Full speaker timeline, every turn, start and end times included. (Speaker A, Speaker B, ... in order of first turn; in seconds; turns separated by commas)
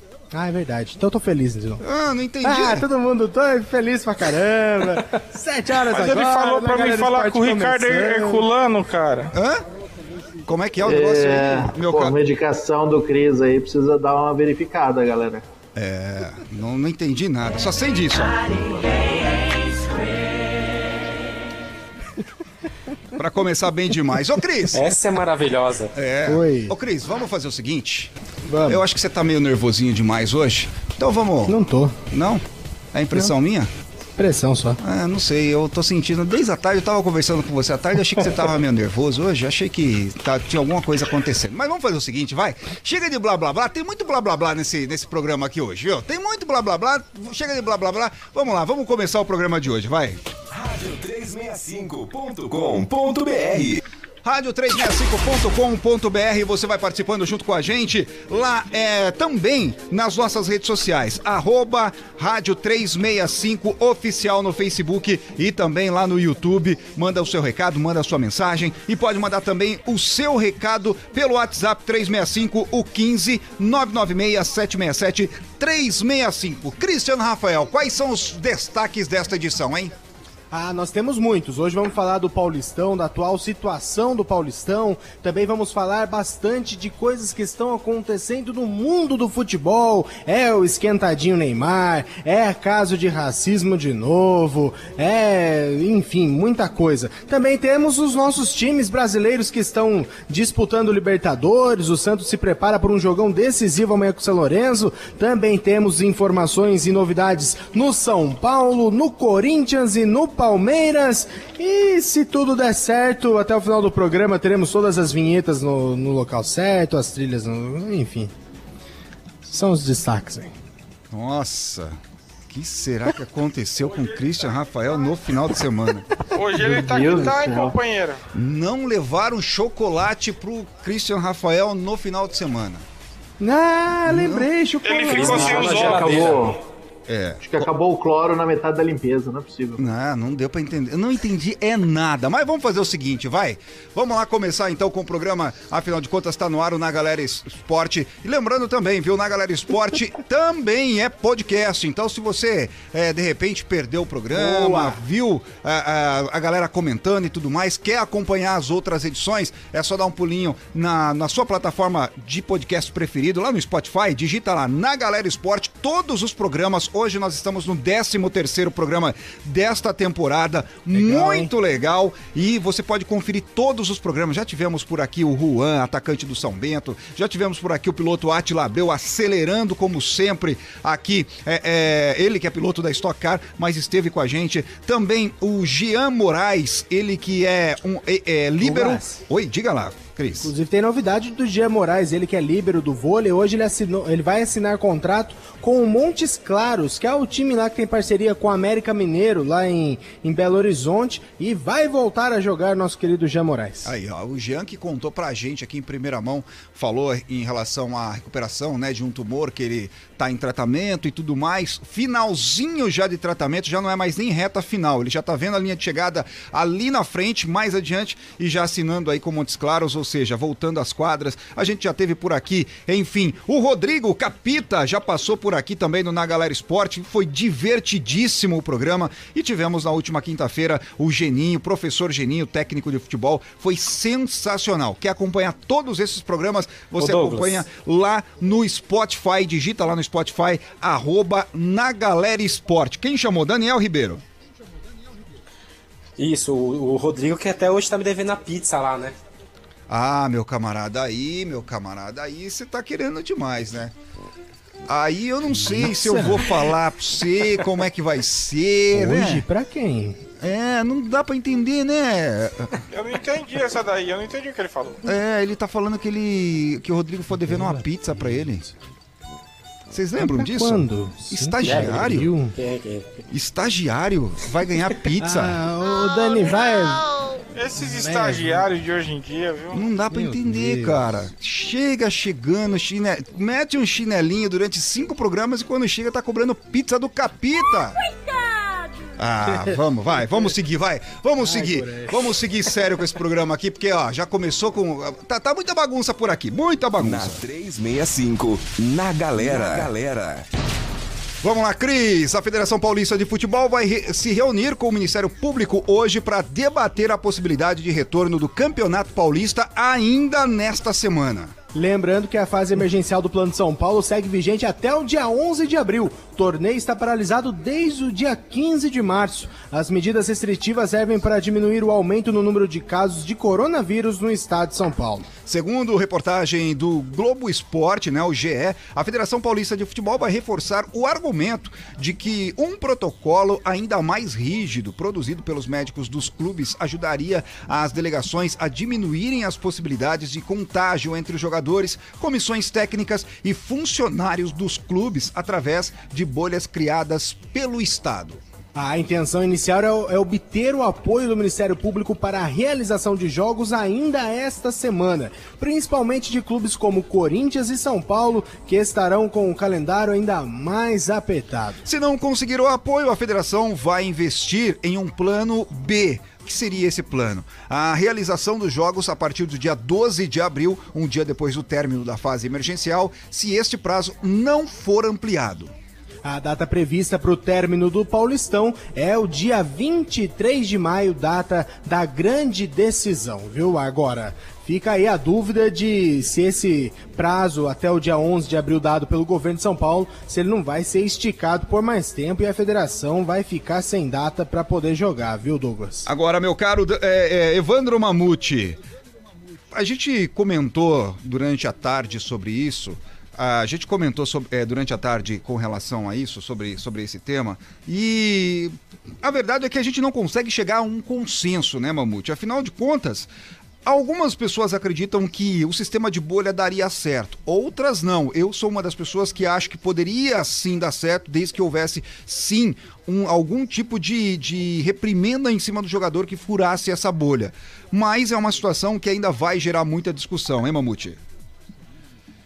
Speaker A: 0.3-1.8, Speaker B: 1.8-2.9, Speaker A: 2.4-8.4, Speaker C: 5.9-9.3, Speaker B: 9.3-9.6, Speaker B: 10.4-12.2, Speaker D: 10.8-15.4, Speaker B: 15.8-18.8, Speaker B: 23.1-24.8, Speaker E: 24.7-25.9, Speaker B: 25.9-28.1, Speaker A: 26.2-26.7, Speaker A: 28.5-28.8, Speaker B: 28.6-31.6, Speaker A: 31.4-31.9, Speaker B: 32.1-32.4, Speaker B: 32.9-33.7, Speaker A: 34.2-34.8, Speaker B: 34.8-50.2, Speaker F: 50.5-53.8, Speaker B: 54.2-79.9, Speaker A: 80.5-118.3, Speaker A: 119.5-120.5, Speaker B: 121.1-126.0, Speaker C: 126.3-128.2, Speaker D: 126.5-127.8, Speaker B: 128.3-132.8, Speaker A: 133.4-135.9, Speaker B: 134.1-134.5, Speaker C: 134.8-136.4, Speaker E: 135.1-136.6, Speaker D: 135.2-136.6, Speaker B: 137.1-137.7, Speaker D: 137.4-139.8, Speaker B: 139.8-190.5, Speaker A: 154.3-155.0, Speaker A: 170.9-171.5, Speaker A: 188.6-189.2, Speaker A: 190.4-203.9, Speaker B: 203.8-244.2, Speaker E: 237.0-237.6, Speaker E: 246.2-249.2, Speaker B: 249.9-253.9, Speaker B: 254.9-259.4, Speaker A: 255.7-256.4, Speaker A: 258.9-260.2, Speaker B: 260.4-262.7, Speaker C: 262.9-265.0, Speaker B: 265.0-268.7, Speaker B: 269.9-272.3, Speaker A: 270.2-272.6, Speaker E: 271.6-273.2, Speaker B: 273.3-275.6, Speaker A: 275.2-277.1, Speaker C: 277.6-279.8, Speaker A: 277.8-278.7, Speaker B: 279.7-288.1, Speaker A: 280.1-281.0, Speaker B: 289.2-297.4, Speaker A: 291.4-292.1, Speaker F: 297.0-300.4, Speaker B: 299.4-299.9, Speaker B: 301.4-311.5, Speaker A: 311.7-325.3, Speaker B: 325.4-348.4, Speaker A: 348.7-361.8, Speaker B: 361.8-375.7, Speaker A: 376.2-396.1, Speaker B: 396.1-398.8, Speaker B: 399.7-413.3, Speaker B: 413.8-431.2